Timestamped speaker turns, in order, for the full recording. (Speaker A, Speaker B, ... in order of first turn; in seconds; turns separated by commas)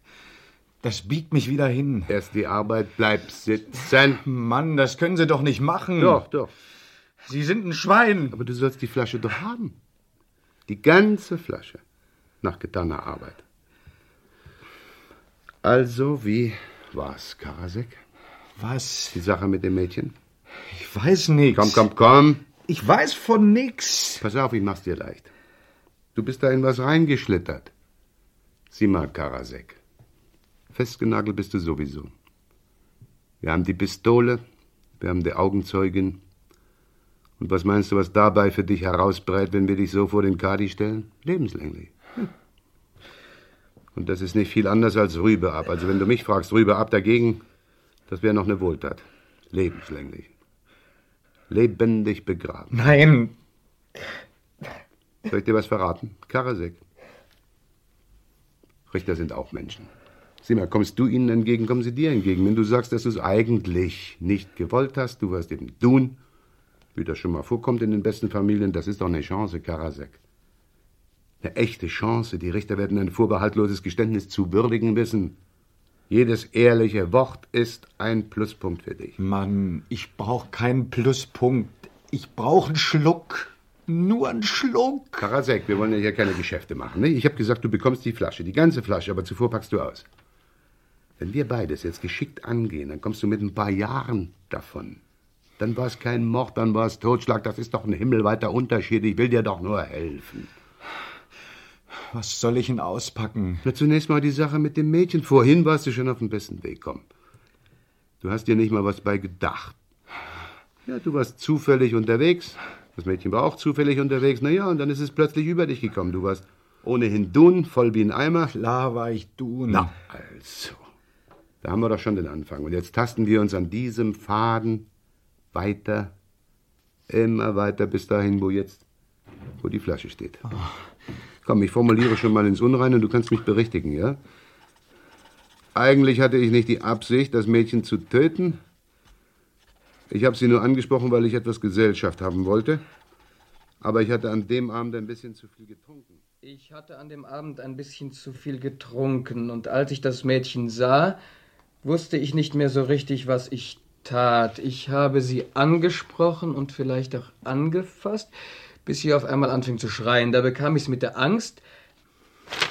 Speaker A: 0.8-2.1, Speaker B: 2.1-4.2, Speaker A: 4.2-6.2, Speaker B: 6.0-6.5, Speaker A: 7.2-8.4, Speaker B: 8.3-9.8, Speaker B: 10.7-11.8, Speaker B: 12.4-13.4, Speaker B: 15.6-18.0, Speaker A: 18.6-19.2, Speaker B: 19.1-20.1, Speaker A: 20.7-21.9, Speaker B: 21.5-22.4, Speaker A: 22.6-24.2, Speaker B: 24.2-25.3, Speaker B: 26.1-27.7, Speaker B: 28.7-29.8, Speaker B: 30.7-32.1, Speaker B: 33.4-34.4, Speaker B: 35.0-36.2, Speaker B: 37.4-42.3, Speaker B: 44.0-47.4, Speaker B: 48.1-50.3, Speaker B: 51.5-52.8, Speaker A: 52.7-53.3, Speaker B: 55.3-56.8, Speaker B: 58.9-59.9, Speaker B: 60.4-66.2, Speaker B: 67.0-70.2, Speaker B: 71.4-75.4, Speaker B: 76.1-79.2, Speaker A: 79.2-85.3, Speaker B: 85.2-90.1, Speaker B: 91.2-95.0, Speaker B: 95.6-100.5, Speaker A: 102.1-103.7, Speaker B: 103.7-107.1, Speaker B: 108.2-109.8, Speaker B: 110.9-118.5, Speaker A: 118.5-119.9, Speaker B: 119.7-120.8, Speaker B: 121.6-124.9, Speaker B: 125.5-126.1, Speaker B: 127.1-128.8, Speaker B: 129.6-130.5, Speaker B: 131.4-134.2, Speaker B: 135.8-138.6, Speaker B: 140.1-142.8, Speaker B: 143.8-146.2, Speaker C: 146.4-151.2, Speaker C: 151.8-158.3, Speaker C: 158.8-161.6